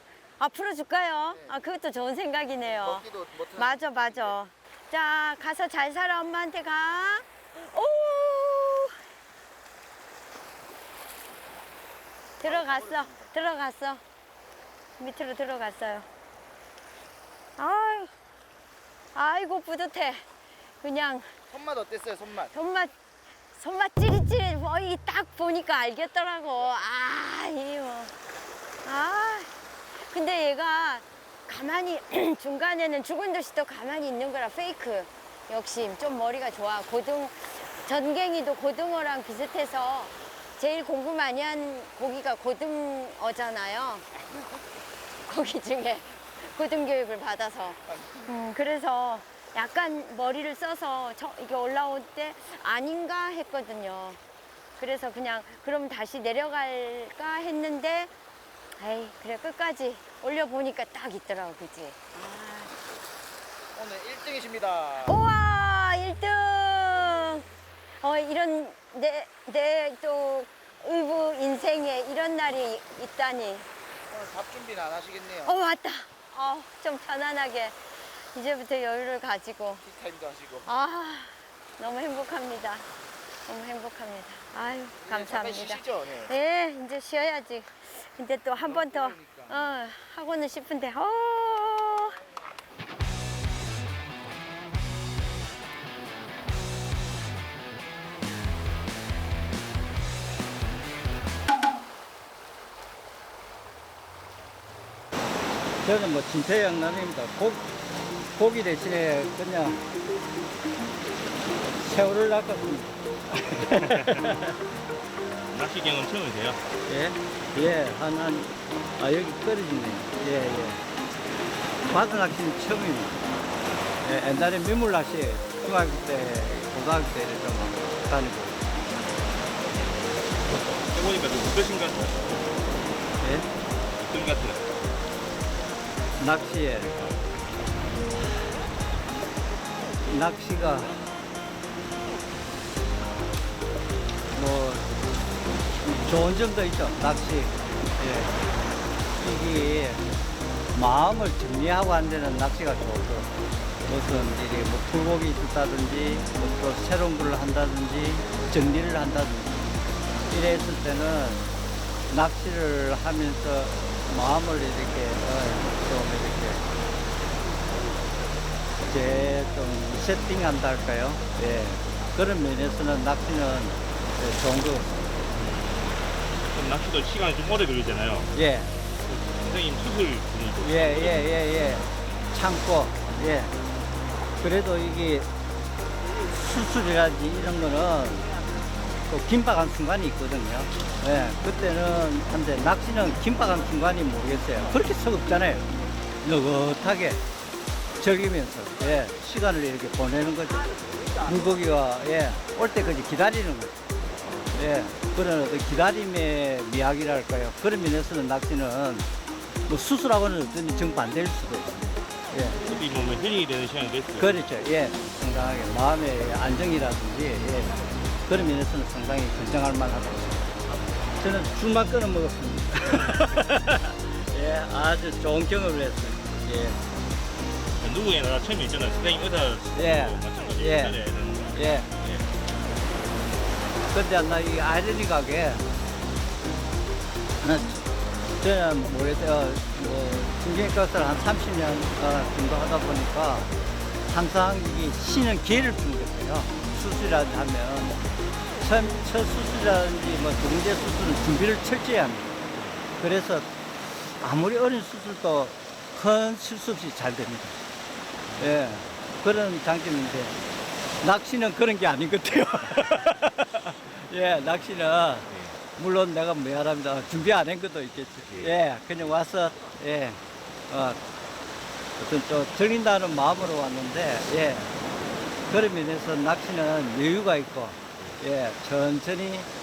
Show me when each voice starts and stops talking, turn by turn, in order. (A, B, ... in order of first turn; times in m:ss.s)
0:00.4-0:09.0 A
0:01.3-0:01.6 B
0:02.6-0:04.4 B
0:12.4-0:14.0 A
0:12.4-0:13.3 B
0:15.0-0:16.0 A
0:17.6-0:18.1 A
0:19.1-0:20.2 A
0:20.8-0:21.3 A
0:21.5-0:22.5 B
0:22.5-0:22.9 A
0:23.5-0:28.1 A
0:28.8-0:29.5 A
0:30.1-0:44.0 A
0:45.3-0:54.2 A
0:47.9-0:48.3 B
0:54.8-0:58.1 A
0:58.8-1:02.7 A
1:03.7-1:05.2 B
1:05.0-1:07.4 A
1:08.0-1:13.7 A
1:14.1-1:15.6 B
1:15.4-1:17.8 A
1:18.3-1:19.8 A
1:19.8-1:20.7 B
1:20.6-1:22.8 A
1:23.4-1:32.2 A
1:25.0-1:26.3 B
1:28.6-1:29.6 B
1:45.8-1:47.7 C
1:48.3-1:49.8 C
1:51.8-1:54.5 C
1:53.7-1:54.4 D
1:55.5-1:56.6 D
1:56.9-2:00.8 C
2:01.9-2:03.2 C
2:04.0-2:08.7 C
2:10.5-2:12.4 D
2:13.2-2:13.5 C
2:14.0-2:14.6 D
2:16.2-2:16.9 C
2:16.9-2:17.2 D
2:20.1-2:20.9 C
2:24.3-2:24.8 C
2:25.9-2:28.3 C
2:29.2-2:30.0 C
2:30.7-2:33.3 C
2:33.8-2:39.6 C
2:40.3-2:41.4 C
2:42.1-2:46.6 C
2:48.9-2:54.9 C
2:55.4-2:55.9 D
2:56.5-2:58.3 D
2:58.3-2:58.7 C
2:59.0-3:01.4 D
3:00.6-3:03.5 C
3:04.4-3:05.3 C
3:06.1-3:08.3 C
3:09.1-3:15.7 C
3:16.2-3:17.2 C
3:18.0-3:23.8 C
3:20.7-3:21.2 B
3:24.5-3:29.0 C
3:29.7-3:32.6 C
3:32.6-3:34.4 D
3:34.1-3:40.5 C
3:41.2-3:46.8 C
3:47.8-3:52.2 D
3:49.7-3:51.0 C
3:51.5-3:51.9 C
3:53.9-3:55.7 C
3:57.4-3:57.8 C
3:58.4-4:03.5 C
4:04.1-4:08.0 C
4:08.6-4:12.4 C
4:13.0-4:13.5 C
4:14.2-4:17.6 C
4:18.4-4:20.4 C
4:21.0-4:31.0 C
4:28.3-4:28.5 D
4:32.0-4:34.7 C
4:35.5-4:39.5 C